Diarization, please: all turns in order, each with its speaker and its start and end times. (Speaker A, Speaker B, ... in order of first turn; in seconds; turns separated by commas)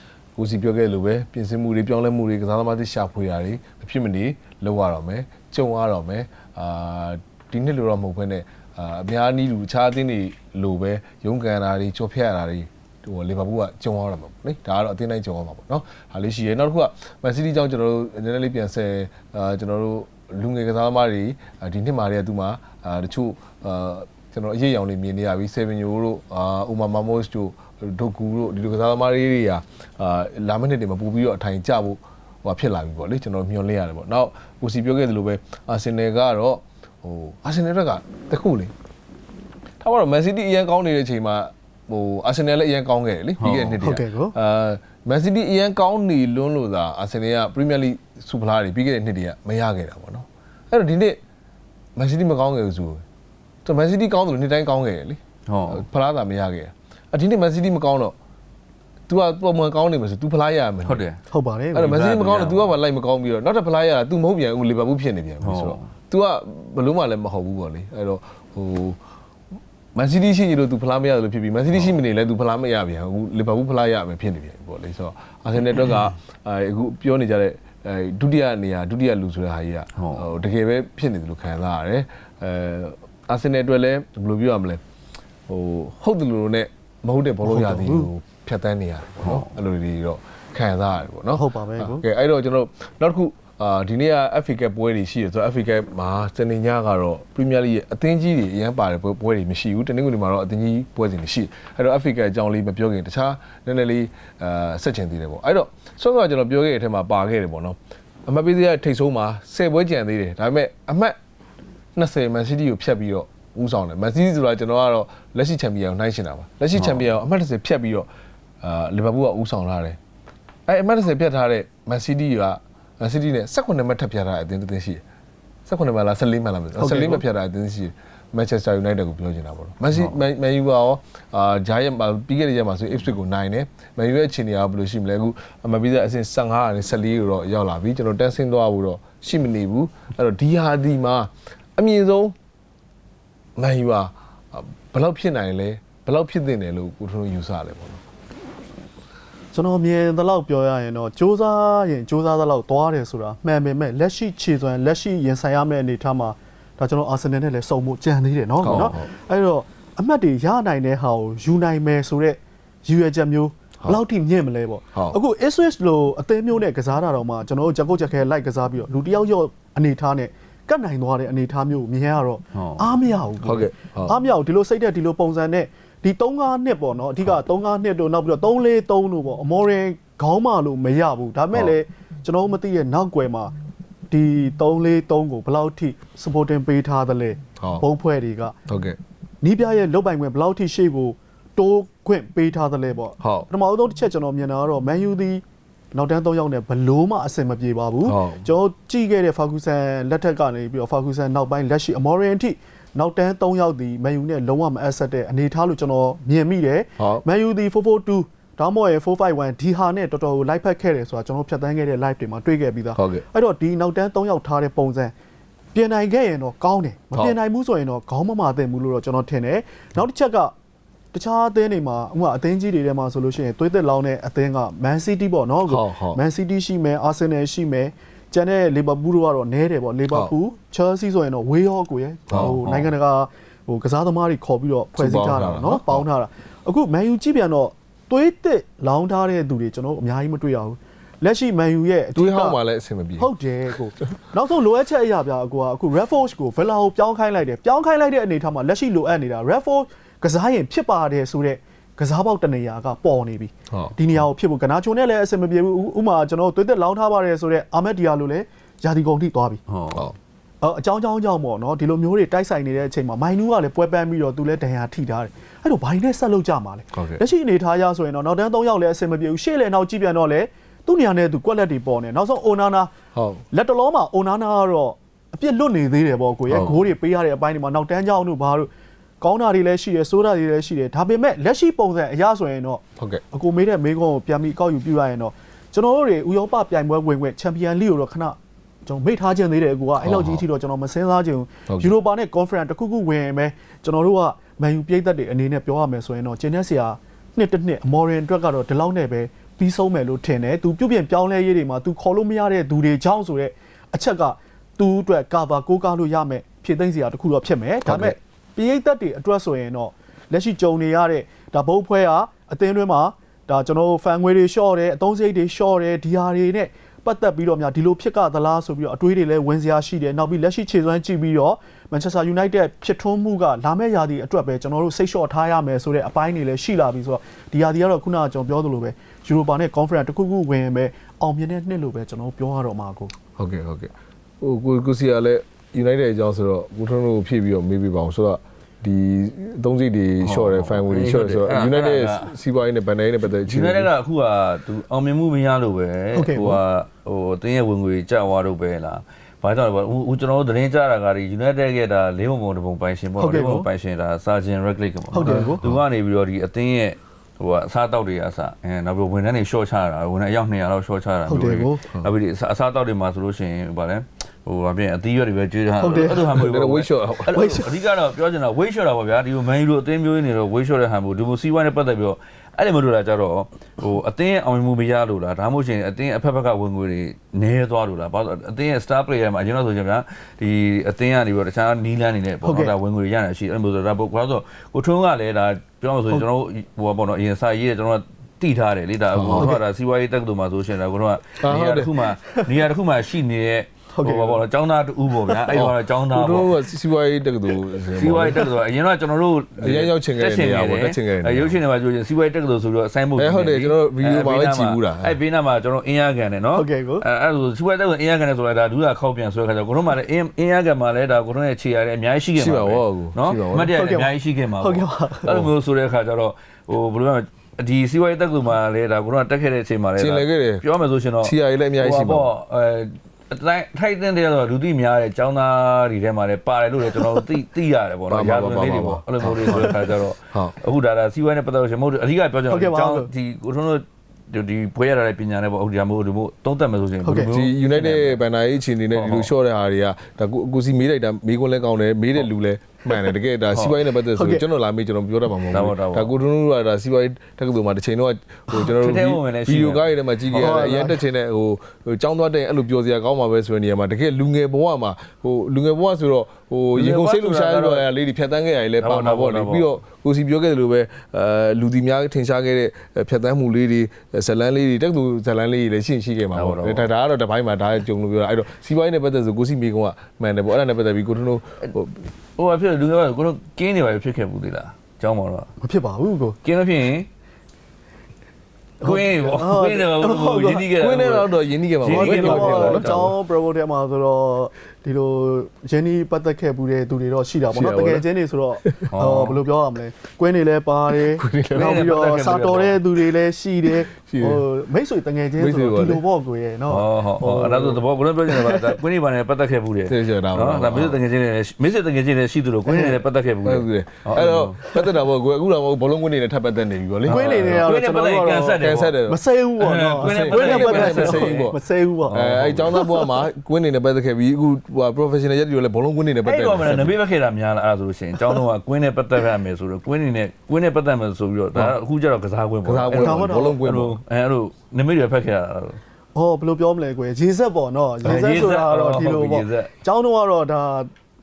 Speaker A: 0.3-38.7, Speaker A: 39.8-51.2, Speaker B: 43.4-43.8, Speaker C: 43.8-44.3, Speaker A: 52.0-53.0, Speaker A: 53.6-58.1, Speaker B: 55.5-55.8, Speaker A: 59.1-61.0, Speaker B: 60.8-61.2, Speaker C: 61.3-62.0, Speaker A: 61.7-69.0, Speaker B: 61.8-62.7, Speaker B: 65.4-65.9, Speaker A: 69.9-84.8, Speaker B: 80.0-80.3, Speaker A: 85.5-111.2, Speaker C: 87.4-88.1, Speaker B: 89.2-89.5, Speaker C: 91.3-92.0, Speaker A: 111.9-118.1, Speaker B: 116.8-117.0, Speaker A: 118.6-120.0, Speaker A: 120.7-125.0, Speaker A: 125.7-142.3, Speaker C: 126.8-127.2, Speaker A: 143.6-148.0, Speaker C: 149.5-183.5, Speaker A: 158.6-159.1, Speaker A: 164.9-165.2, Speaker B: 172.5-172.9, Speaker A: 173.4-174.2, Speaker C: 184.1-188.5, Speaker A: 188.7-189.0, Speaker C: 189.4-195.4, Speaker A: 193.2-193.5, Speaker C: 195.9-215.1, Speaker A: 198.0-198.5, Speaker A: 207.0-207.2, Speaker A: 212.9-213.2, Speaker C: 215.7-220.5, Speaker C: 221.1-242.6, Speaker A: 225.7-226.2, Speaker A: 232.3-232.6, Speaker B: 232.4-232.9, Speaker A: 234.9-236.0, Speaker A: 242.1-243.3, Speaker C: 243.2-259.6, Speaker A: 253.7-254.2, Speaker B: 259.7-260.1, Speaker C: 260.6-272.9, Speaker A: 266.9-267.2, Speaker A: 273.1-273.4, Speaker C: 273.5-278.7, Speaker A: 276.5-276.8, Speaker C: 279.2-333.1, Speaker A: 290.0-290.4, Speaker A: 307.8-308.2, Speaker A: 333.4-343.9, Speaker B: 340.2-342.3, Speaker B: 343.3-396.5, Speaker C: 346.1-346.6, Speaker C: 353.2-353.7, Speaker C: 355.1-355.6, Speaker A: 355.2-355.8, Speaker C: 361.3-361.9, Speaker C: 365.8-366.4, Speaker A: 366.3-367.4, Speaker C: 367.3-367.7, Speaker C: 382.4-382.7, Speaker A: 389.1-389.5, Speaker A: 391.4-391.9, Speaker C: 393.9-394.4, Speaker A: 395.5-398.4, Speaker B: 397.9-438.2, Speaker A: 399.6-401.6, Speaker A: 403.2-405.1, Speaker C: 406.5-407.0, Speaker A: 412.4-413.7, Speaker C: 413.6-415.3, Speaker A: 420.0-420.6, Speaker A: 421.2-422.3, Speaker A: 428.1-429.8, Speaker A: 430.3-430.6, Speaker C: 432.5-433.1, Speaker C: 437.0-437.3, Speaker A: 437.3-472.0, Speaker B: 438.9-439.3, Speaker C: 444.1-444.4, Speaker B: 445.5-446.1, Speaker B: 448.5-450.6, Speaker C: 450.3-451.0, Speaker B: 456.7-457.9, Speaker B: 458.8-459.7, Speaker B: 466.3-466.9, Speaker B: 472.4-475.5, Speaker C: 475.6-476.4, Speaker B: 476.4-477.1, Speaker C: 478.8-480.7, Speaker B: 478.8-482.9, Speaker A: 480.7-483.1, Speaker C: 481.9-498.8, Speaker A: 487.5-488.1, Speaker A: 488.6-488.9, Speaker B: 488.9-489.4, Speaker A: 490.9-491.9, Speaker B: 491.5-492.8, Speaker A: 493.9-494.4, Speaker A: 495.4-496.0, Speaker B: 496.7-504.6, Speaker A: 499.9-501.0, Speaker C: 502.7-503.0, Speaker A: 503.4-507.8, Speaker C: 504.6-504.9, Speaker B: 507.1-509.0, Speaker C: 507.1-513.1, Speaker A: 508.5-509.2, Speaker B: 509.6-511.5, Speaker A: 509.9-517.0, Speaker B: 512.1-512.8, Speaker B: 516.2-525.8, Speaker A: 522.6-524.0, Speaker C: 522.9-523.6, Speaker C: 526.1-530.9, Speaker B: 528.0-529.7